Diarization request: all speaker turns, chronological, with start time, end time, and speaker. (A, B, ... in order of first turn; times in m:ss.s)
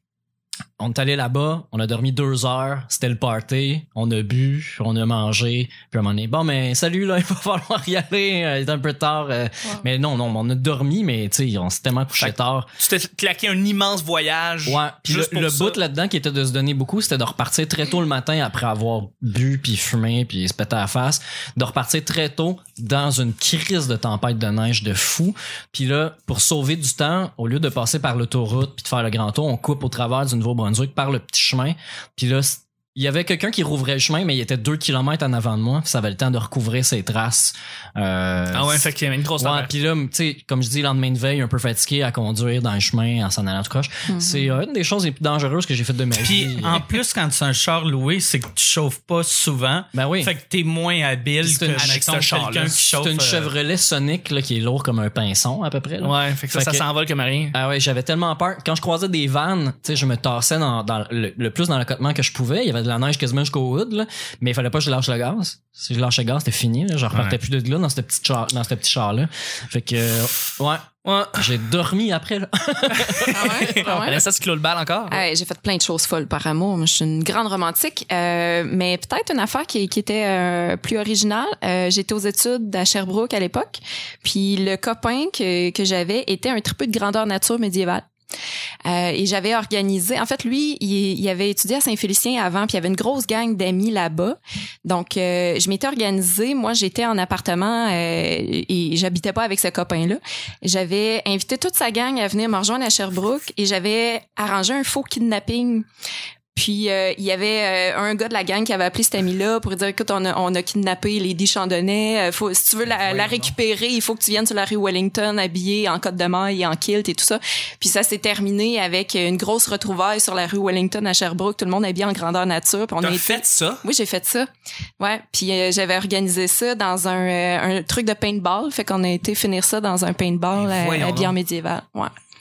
0:00.8-0:12.7 A
0:12.2-0:15.8 B
0:14.7-0:46.8 A
0:38.5-0:39.7 B
0:44.1-0:44.5 C
0:46.2-0:53.5 D
0:49.9-0:50.3 A
0:51.4-0:52.0 A
0:51.8-0:52.8 B
0:53.0-0:56.8 A
0:56.0-0:57.6 B
0:57.5-1:13.8 A
1:11.0-1:11.4 B
1:12.9-1:15.2 B
1:13.3-1:14.2 C
1:15.1-1:28.1 C
1:28.8-1:45.9 C
1:46.6-2:12.1 C
1:53.0-1:53.5 B
2:03.0-2:03.8 B
2:10.6-2:11.4 B